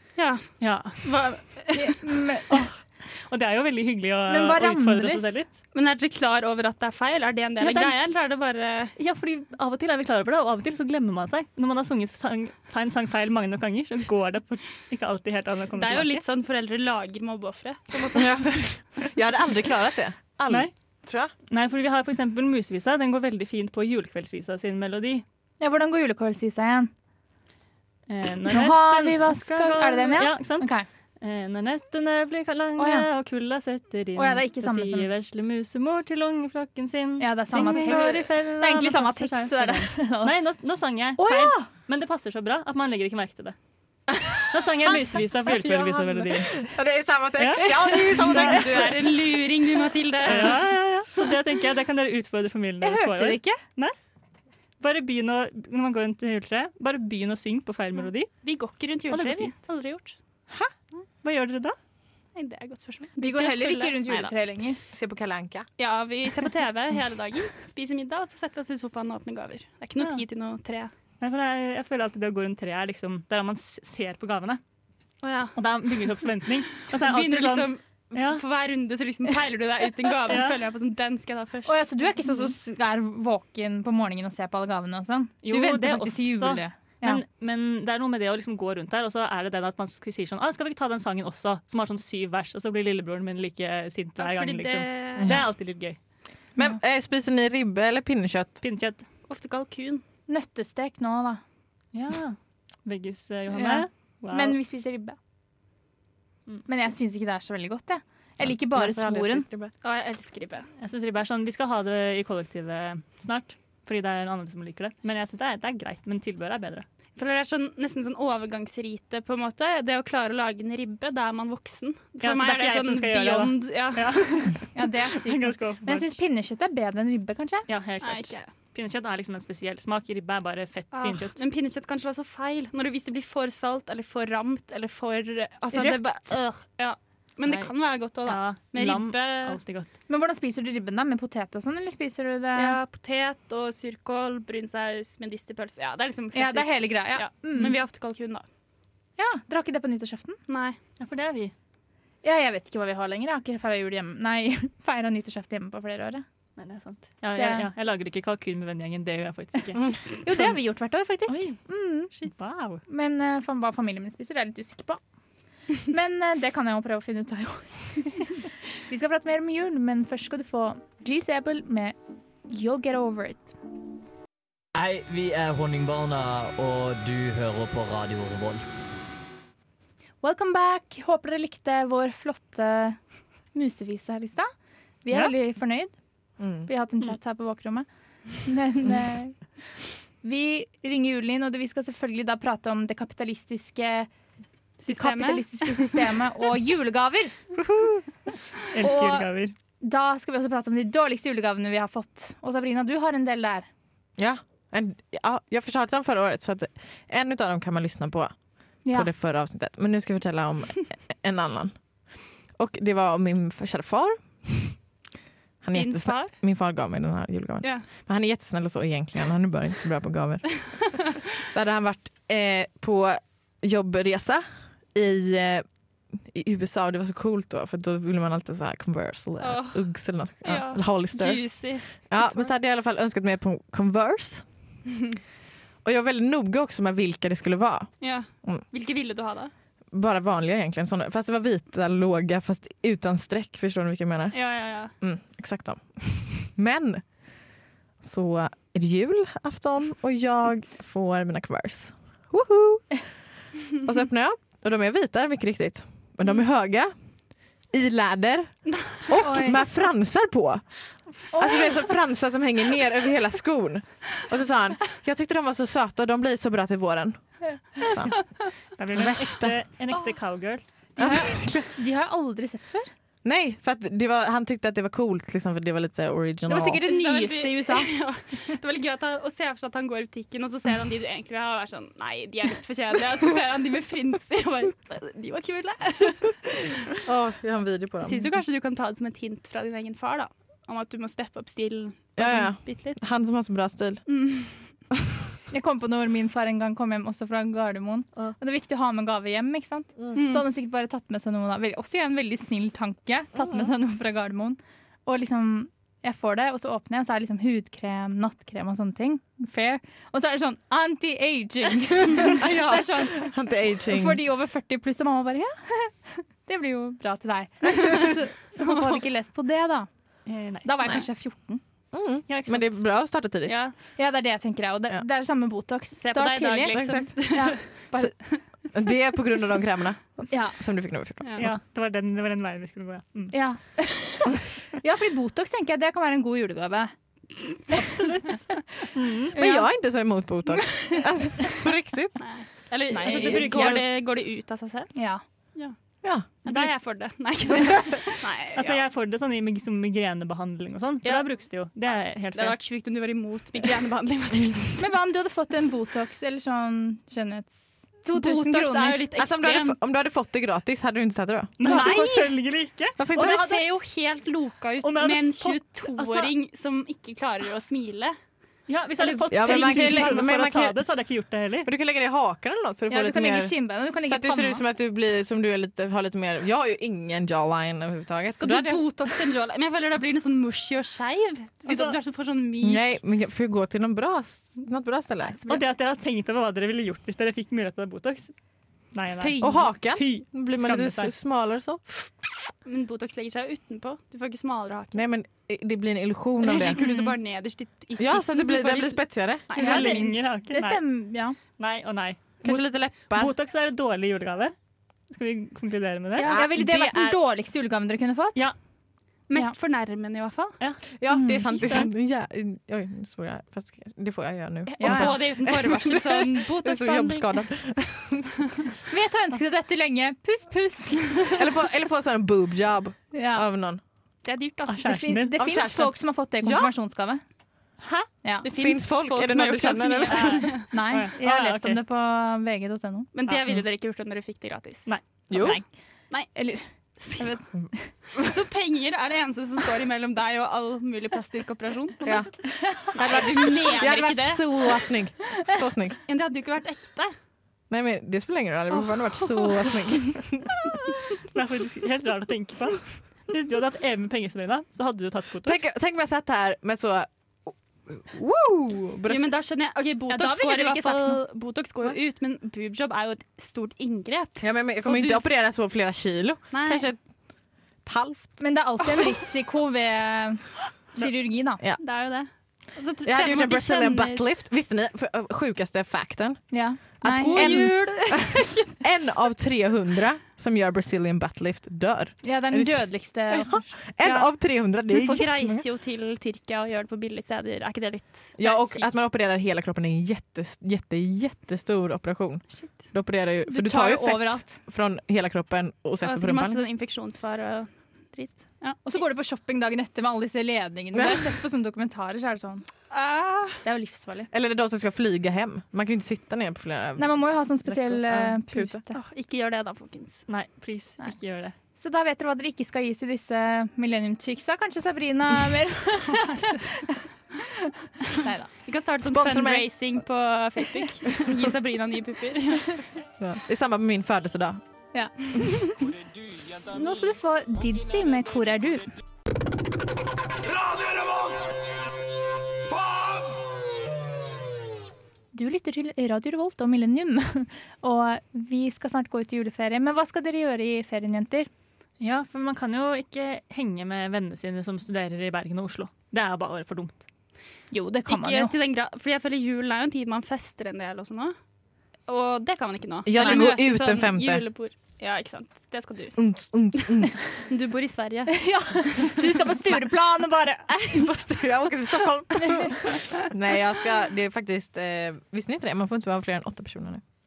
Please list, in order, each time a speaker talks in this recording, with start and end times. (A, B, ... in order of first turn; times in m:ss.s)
0:00.2-0:02.0 A
0:00.6-0:01.0 B
0:01.8-0:02.6 C
0:02.5-0:05.5 B
0:04.3-0:05.4 C
0:05.7-0:08.9 A
0:07.6-0:07.9 B
0:09.0-0:16.2 B
0:15.8-0:18.3 A
0:18.1-0:21.3 D
0:21.5-0:25.2 B
0:25.6-0:26.9 C
0:28.1-0:30.7 B
0:28.5-0:30.9 C
0:31.2-0:43.6 B
0:32.8-0:33.1 C
0:34.2-0:35.1 C
0:37.2-0:40.3 C
0:37.6-0:38.0 D
0:41.2-0:41.7 C
0:44.1-0:44.4 D
0:44.4-0:46.5 B
0:45.5-0:49.1 D
0:47.4-0:48.8 B
0:48.0-0:50.6 A
0:50.2-0:53.9 B
0:52.8-0:53.6 C
0:54.8-0:58.3 B
0:58.4-1:00.2 A
0:59.1-0:59.6 B
1:01.2-1:01.8 B
1:02.4-1:04.3 A
1:03.2-1:04.8 C
1:04.9-1:05.7 D
1:05.8-1:10.9 A
1:11.2-1:14.6 B
1:15.2-1:16.0 A
1:15.6-1:18.4 B
1:16.9-1:21.8 A
1:20.3-1:20.6 B
1:21.6-1:27.2 C
1:25.4-1:36.0 B
1:34.2-1:35.4 A
1:35.2-1:35.4 D
1:36.6-1:38.6 D
1:38.6-1:39.0 B
1:39.3-1:40.0 A
1:40.3-1:41.4 C
1:41.9-1:44.6 B
1:43.5-1:45.2 C
1:46.7-1:49.4 C
1:48.4-1:49.7 D
1:49.8-1:50.7 A
1:50.8-1:56.8 B
1:57.2-2:04.5 A
2:02.2-2:06.2 B
2:04.7-2:07.7 C
2:07.7-2:11.4 B
2:08.0-2:08.5 A
2:10.9-2:19.6 A
2:15.7-2:16.4 C
2:17.4-2:19.9 B
2:20.1-2:22.8 C
2:22.6-2:28.4 A
2:26.3-2:27.8 C
2:29.2-2:30.4 C
2:30.5-2:30.8 A
2:31.0-2:31.5 B
2:32.2-2:36.2 C
2:36.6-2:39.8 B
2:37.3-2:37.7 C
2:40.2-2:42.1 C
2:41.3-2:42.8 B
2:42.9-2:45.0 C
2:45.8-2:52.0 C
2:52.5-2:53.6 C
2:54.8-2:58.9 E
3:00.2-3:03.0 C
3:03.5-3:04.5 C
3:05.0-3:05.9 C
3:06.4-3:06.7 D
3:06.6-3:07.9 C
3:08.4-3:09.4 C
3:10.2-3:14.1 C
3:14.8-3:15.8 A
3:14.9-3:17.3 C
3:17.6-3:19.5 B
3:18.8-3:19.3 C
3:19.8-3:23.7 C
3:24.2-3:34.8 D
3:28.8-3:29.1 C
3:35.6-3:54.5 D
3:35.7-3:36.4 A
3:37.6-3:37.9 A
3:49.4-3:52.5 A
3:55.8-3:58.6 D
3:58.0-3:59.5 A
3:59.9-4:07.5 D
4:04.3-4:04.9 A
4:08.0-4:13.1 D
4:13.8-4:16.9 D
4:17.4-4:29.6 D
4:18.9-4:19.2 A
4:19.2-4:19.6 C
4:28.8-4:30.6 B
4:31.0-4:32.9 C
4:31.0-4:31.7 D
4:33.2-4:36.8 D
4:36.5-4:37.9 C
4:36.8-4:46.6 A
4:47.0-4:48.4 D
4:48.0-4:53.0 A
4:52.2-4:54.0 D
4:54.1-4:54.7 A
4:55.5-5:19.9 C
5:00.1-5:00.4 A
5:03.4-5:03.7 D
5:12.3-5:14.2 D
5:20.3-5:21.0 B
5:20.6-5:21.6 C
5:21.9-5:23.6 D
5:22.3-5:22.8 B
5:23.4-5:23.7 A
5:24.0-5:28.2 C
5:25.9-5:27.6 A
5:26.7-5:28.1 D
5:28.6-5:31.5 D
5:30.3-5:30.6 C
5:31.2-5:31.5 A
5:31.4-5:33.4 B
5:33.3-5:36.9 C
5:37.7-5:38.4 B
5:38.9-5:39.4 B
5:39.4-5:39.6 C
5:39.4-5:42.2 D
5:42.2-5:44.9 A
5:42.9-5:43.7 C
5:43.0-5:43.9 B
5:44.9-5:45.2 C
5:46.4-5:48.8 A
5:46.5-5:46.7 B
5:47.6-5:47.8 D
5:48.6-5:52.6 B
5:51.0-5:51.3 A
5:52.3-5:54.8 A
5:54.8-5:59.0 C
5:58.1-5:59.8 A
5:59.2-6:01.9 D
6:01.6-6:03.6 B
6:01.6-6:02.3 A
6:03.0-6:03.5 D
6:03.1-6:08.2 A
6:04.8-6:06.3 B
6:08.7-6:11.7 B
6:09.0-6:10.2 A
6:09.3-6:10.8 D
6:11.6-6:18.8 D
6:12.9-6:14.6 C
6:18.4-6:23.0 A
6:21.6-6:22.0 B
6:22.6-6:25.4 D
6:25.2-6:25.6 A
6:25.5-6:28.3 B
6:28.9-6:31.1 B
6:29.4-6:31.8 D
6:32.6-6:35.0 A
6:34.9-6:36.8 D
6:36.4-6:40.1 A
6:36.8-6:37.1 C
6:38.0-6:39.4 D
6:39.5-6:40.8 B
6:39.6-6:41.4 C
6:41.6-6:44.6 B
6:42.4-6:43.3 D
6:45.1-6:46.3 B
6:46.2-6:48.5 C
6:46.2-6:47.2 D
6:49.3-6:50.6 A
6:51.0-6:58.3 D
6:51.1-6:51.4 C
6:51.4-6:51.9 B
6:54.8-6:57.4 A
6:54.8-6:55.1 C
6:54.8-6:55.1 B
6:58.9-7:01.4 C
7:01.3-7:03.8 D
7:03.1-7:03.4 C
7:04.2-7:04.8 A
7:04.7-7:05.6 B
7:04.8-7:07.2 C
7:05.4-7:06.7 D
7:07.8-7:08.1 B
7:08.4-7:10.6 A
7:08.5-7:10.5 D
7:10.1-7:11.8 B
7:10.7-7:13.1 C
7:13.1-7:14.9 A
7:13.3-7:13.6 B
7:15.3-7:15.6 D
7:15.4-7:15.6 C
7:16.2-7:17.9 C
7:18.2-7:22.1 A
7:22.0-7:26.0 D
7:22.6-7:22.9 C
7:22.9-7:24.8 A
7:26.1-7:27.1 A
7:27.7-7:30.6 D
7:31.3-7:35.6 B
7:35.4-7:39.4 D
7:39.1-7:45.3 A
7:40.1-7:41.2 C
7:44.4-7:47.0 D
7:46.5-7:46.9 A
7:47.8-7:48.4 D
7:48.4-7:51.6 C
7:51.8-7:54.3 A
7:53.0-7:58.3 D
7:56.5-7:57.5 C
7:57.0-7:58.8 A
7:58.8-8:05.6 D
8:02.2-8:03.7 C
8:04.0-8:08.9 A
8:08.4-8:16.6 D
8:13.5-8:14.6 C
8:16.0-8:18.8 A
8:18.8-8:22.7 C
8:22.9-8:23.6 A
8:23.6-8:24.3 C
8:24.3-8:28.8 D
8:27.0-8:29.0 C
8:28.9-8:30.3 A
8:30.3-8:31.6 B
8:31.8-8:37.0 C
8:38.1-8:38.5 C
8:38.6-8:42.8 A
8:39.0-8:39.7 D
8:43.2-8:44.6 D
8:44.9-8:45.8 C
8:46.6-8:48.9 C
8:55.3-9:01.5 C
9:02.0-9:07.0 B
9:07.7-9:08.6 C
9:08.1-9:11.4 A
9:12.1-9:16.9 A
9:13.0-9:14.5 D
9:13.2-9:13.6 C
9:16.2-9:17.2 D
9:17.5-9:18.9 A
9:18.4-9:20.7 C
9:20.7-9:27.0 D